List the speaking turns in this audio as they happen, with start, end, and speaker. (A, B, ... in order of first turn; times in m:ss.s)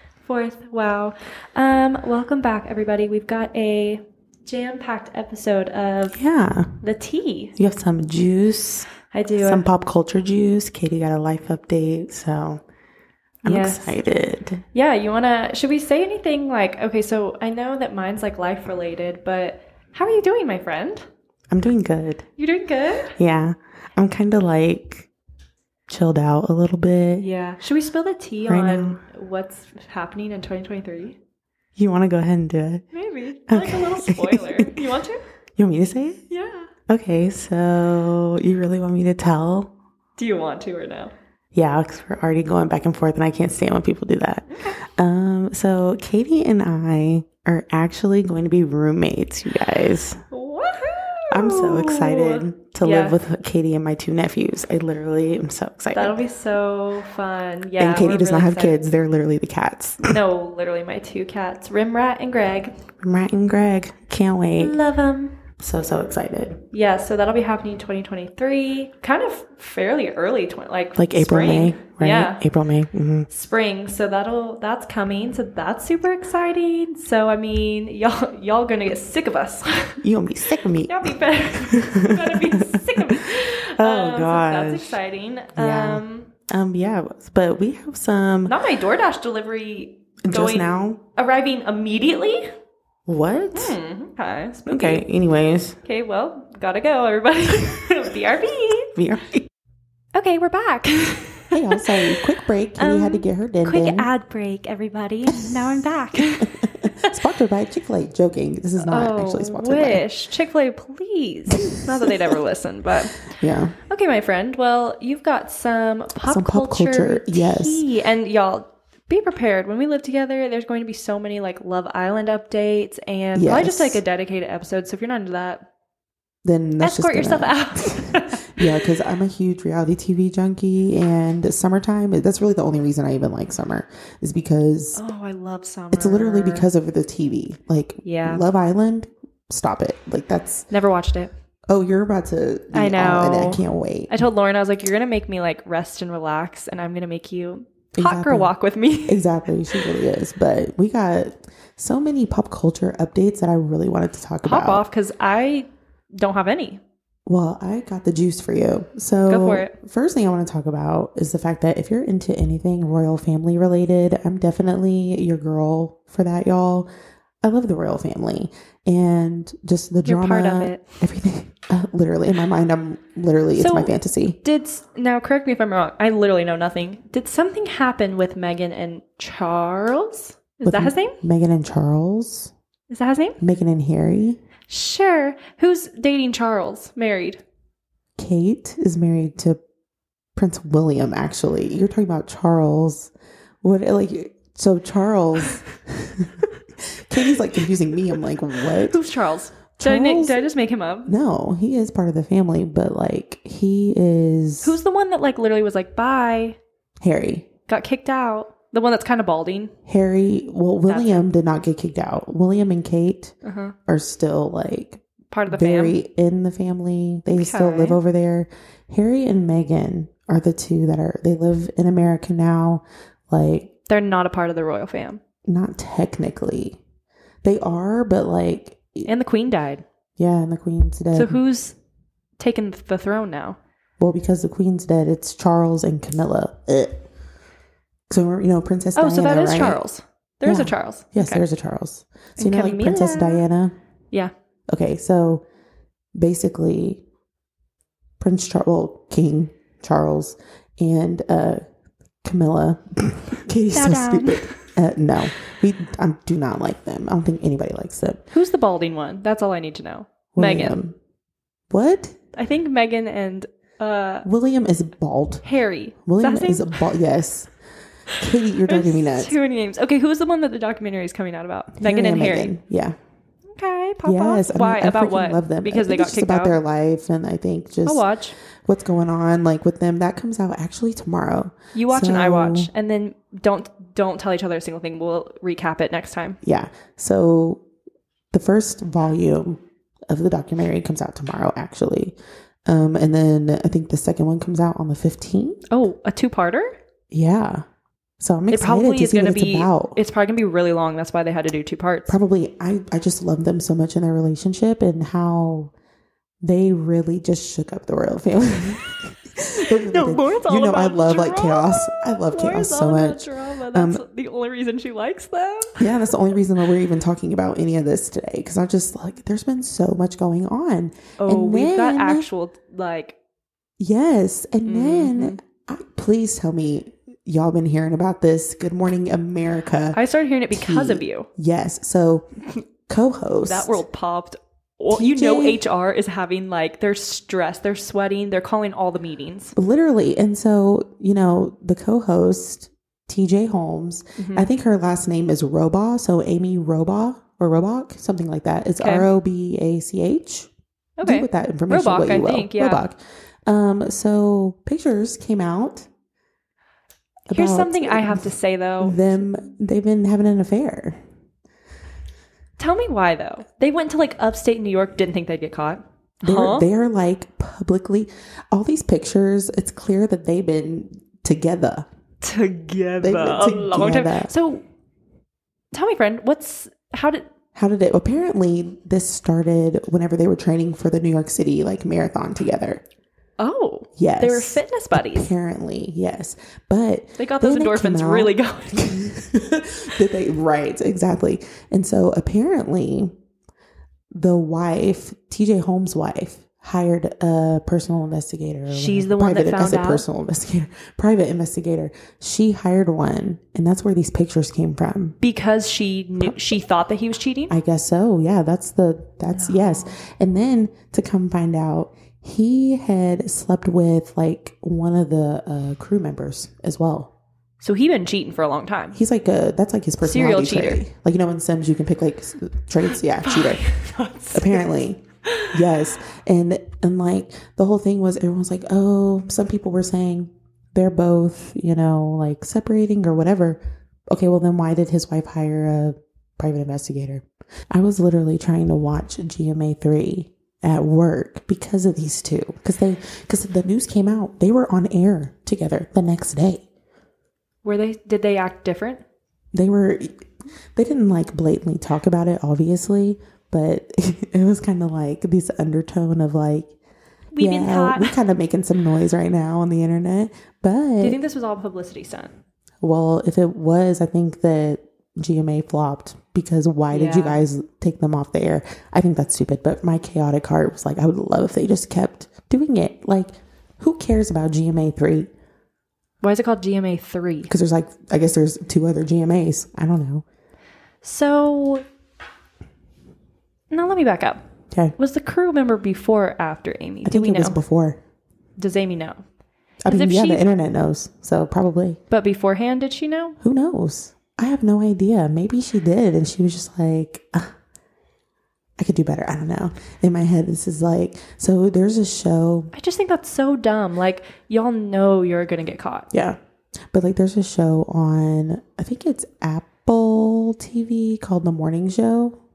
0:00.2-0:06.2 A
0:06.1-0:06.7 B
0:06.8-0:07.6 A
0:07.6-0:12.6 B
0:09.1-0:09.6 A
0:13.4-0:14.6 B
0:13.4-0:14.0 A
0:14.7-0:21.1 A
0:21.5-0:22.2 B
0:22.4-0:23.2 A
0:23.2-0:25.1 B
0:25.9-0:27.3 B
0:27.2-0:31.2 A
0:28.5-0:29.0 B
0:31.8-0:32.8 B
0:32.9-0:35.2 A
0:33.5-0:34.8 B
0:35.6-0:36.2 B
0:36.3-0:36.7 A
0:36.9-0:39.7 B
0:40.2-0:41.1 A
0:41.5-0:50.2 B
0:44.5-0:44.8 A
0:50.3-0:53.2 A
0:51.3-0:56.2 B
0:55.9-0:58.8 A
0:57.8-1:00.2 B
1:00.1-1:02.7 A
1:03.0-1:04.8 B
1:04.6-1:05.4 A
1:05.6-1:06.6 B
1:06.7-1:12.4 A
1:11.0-1:13.3 B
1:13.3-1:20.0 A
1:20.0-1:25.0 B
1:20.8-1:26.3 A
1:25.6-1:28.6 B
1:28.5-1:32.5 A
1:30.2-1:31.0 B
1:33.1-1:33.8 B
1:33.6-1:35.1 A
1:34.7-1:35.8 B
1:35.8-1:38.9 A
1:38.9-1:39.5 B
1:40.1-1:42.2 A
1:41.5-1:44.1 B
1:42.8-1:47.1 A
1:45.3-1:45.6 B
1:46.2-1:50.0 B
1:48.8-1:53.3 A
1:51.6-1:52.4 B
1:53.3-1:53.8 B
1:53.8-2:05.7 A
1:56.2-1:57.9 B
2:03.4-2:04.0 B
2:06.4-2:15.0 B
2:06.8-2:08.9 A
2:15.0-2:16.7 A
2:15.9-2:20.7 B
2:18.0-2:18.4 A
2:20.7-2:21.3 A
2:21.7-2:24.2 B
2:22.7-2:29.9 A
2:28.0-2:28.5 B
2:29.1-2:34.8 B
2:34.4-2:36.8 A
2:37.3-2:46.9 B
2:39.3-2:39.8 A
2:47.4-2:54.4 B
2:50.0-2:50.8 A
2:53.6-3:01.2 A
3:00.6-3:02.5 B
3:02.9-3:03.4 A
3:03.4-3:04.4 B
3:04.7-3:07.4 A
3:08.2-3:09.6 B
3:10.4-3:13.1 B
3:13.6-3:19.0 B
3:18.8-3:21.1 A
3:19.8-3:20.4 B
3:21.1-3:24.8 B
3:24.6-3:26.6 A
3:27.0-3:27.5 B
3:27.7-3:29.7 A
3:29.9-3:33.3 B
3:30.9-3:31.3 A
3:33.4-3:33.8 A
3:33.9-3:43.7 B
3:35.3-3:36.0 A
3:37.3-3:38.0 A
3:43.9-3:45.2 A
3:45.5-3:46.8 B
3:47.4-3:49.1 B
3:49.1-3:49.8 A
3:50.2-3:51.4 B
3:51.1-3:51.8 A
3:52.4-3:53.6 A
3:54.0-3:57.1 B
3:58.1-3:59.8 B
3:59.0-4:01.4 A
4:00.4-4:03.7 B
4:02.4-4:03.4 A
4:04.7-4:05.4 B
4:06.2-4:07.0 B
4:08.2-4:11.6 B
4:12.2-4:18.2 B
4:13.7-4:14.6 A
4:18.3-4:20.8 A
4:20.3-4:21.0 B
4:21.7-4:22.2 B
4:22.4-4:24.3 A
4:24.2-4:25.4 B
4:25.4-4:26.8 A
4:26.1-4:27.5 B
4:28.1-4:29.4 B
4:28.7-4:32.5 A
4:31.8-4:33.0 B
4:33.5-4:36.6 A
4:34.0-4:38.0 B
4:37.8-4:38.4 A
4:38.6-4:42.7 B
4:41.7-4:46.4 A
4:46.4-4:47.6 B
4:48.3-4:55.6 B
4:55.7-4:56.8 A
4:57.1-4:57.6 B
4:58.2-5:00.0 B
4:58.5-5:02.2 A
5:02.1-5:05.7 B
5:06.4-5:14.0 B
5:09.8-5:16.1 A
5:15.8-5:22.3 B
5:21.2-5:23.2 A
5:23.8-5:30.0 B
5:24.7-5:25.4 A
5:29.9-5:31.3 A
5:30.5-5:32.3 B
5:32.9-5:33.8 B
5:33.5-5:39.6 A
5:34.9-5:35.6 B
5:39.6-5:50.5 B
5:44.2-5:44.5 A
5:48.8-5:49.1 A
5:51.0-5:52.8 A
5:51.0-5:55.9 B
5:57.3-6:01.0 B
5:57.3-5:59.2 A
6:02.6-6:06.7 A
6:06.2-6:11.9 B
6:12.2-6:14.6 A
6:13.0-6:14.3 B
6:15.7-6:17.3 A
6:17.6-6:22.8 B
6:23.4-6:25.3 A
6:24.0-6:33.1 B
6:27.2-6:28.8 A
6:34.1-6:45.2 B
6:38.7-6:40.0 A
6:45.2-6:47.6 A
6:47.5-6:57.1 B
6:57.6-6:59.0 A
6:58.9-7:03.6 B
7:00.0-7:00.8 A
7:03.2-7:04.6 A
7:04.3-7:13.6 B
7:05.3-7:05.5 A
7:14.1-7:26.7 B
7:27.6-7:29.0 A
7:29.5-7:36.7 B
7:37.3-7:38.2 A
7:37.4-7:41.2 B
7:41.0-7:42.3 A
7:42.8-7:55.3 B
7:46.9-7:47.4 A
7:56.2-7:57.5 A
7:57.5-8:00.2 B
8:01.0-8:01.8 A
8:03.7-8:04.4 A
8:05.0-8:07.6 A
8:07.0-8:08.0 B
8:08.6-8:09.2 A
8:09.8-8:12.0 B
8:09.9-8:10.5 A
8:12.1-8:13.4 A
8:13.4-8:17.5 B
8:18.8-8:22.7 B
8:22.7-8:26.1 A
8:26.1-8:26.4 B
8:26.9-8:32.4 B